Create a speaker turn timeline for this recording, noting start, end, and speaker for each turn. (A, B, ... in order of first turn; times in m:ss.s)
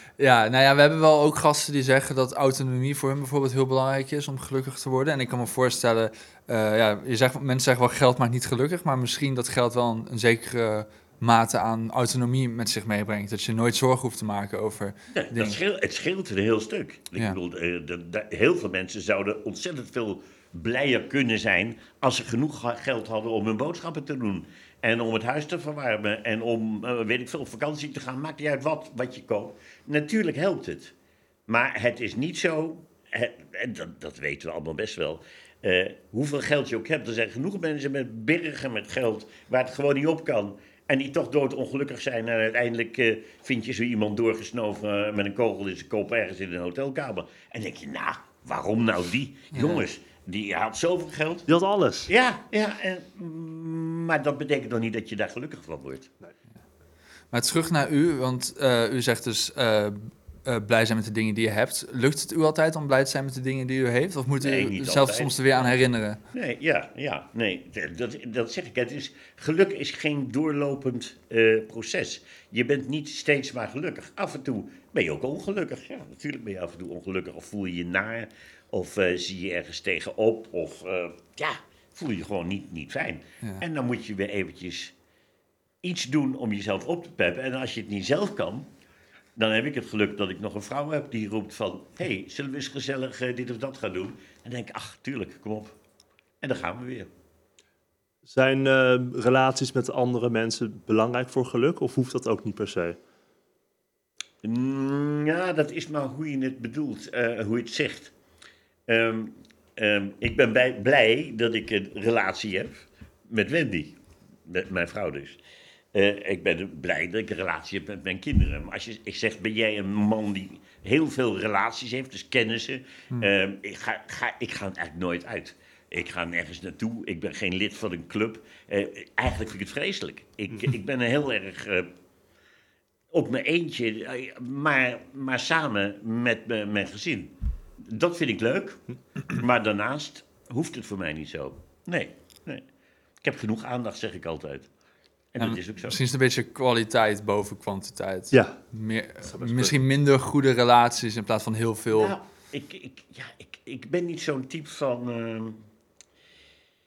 0:00.2-0:15.6 A
0:15.1-0:30.9 B
0:31.5-0:51.5 B
0:49.5-0:49.8 A
0:51.5-0:52.1 C
0:52.0-0:56.1 B
0:57.3-1:06.2 A
1:04.4-1:05.7 B
1:06.3-1:24.9 B
1:25.8-1:28.7 B
1:29.4-1:35.8 B
1:36.4-1:37.1 B
1:38.2-1:43.0 C
1:44.4-1:48.1 B
1:48.9-1:55.4 B
1:55.9-2:11.9 B
2:13.1-2:22.6 B
2:23.2-2:24.7 B
2:25.3-2:26.0 B
2:25.4-2:32.2 A
2:28.3-2:28.6 C
2:29.2-2:29.8 C
2:31.9-2:35.7 B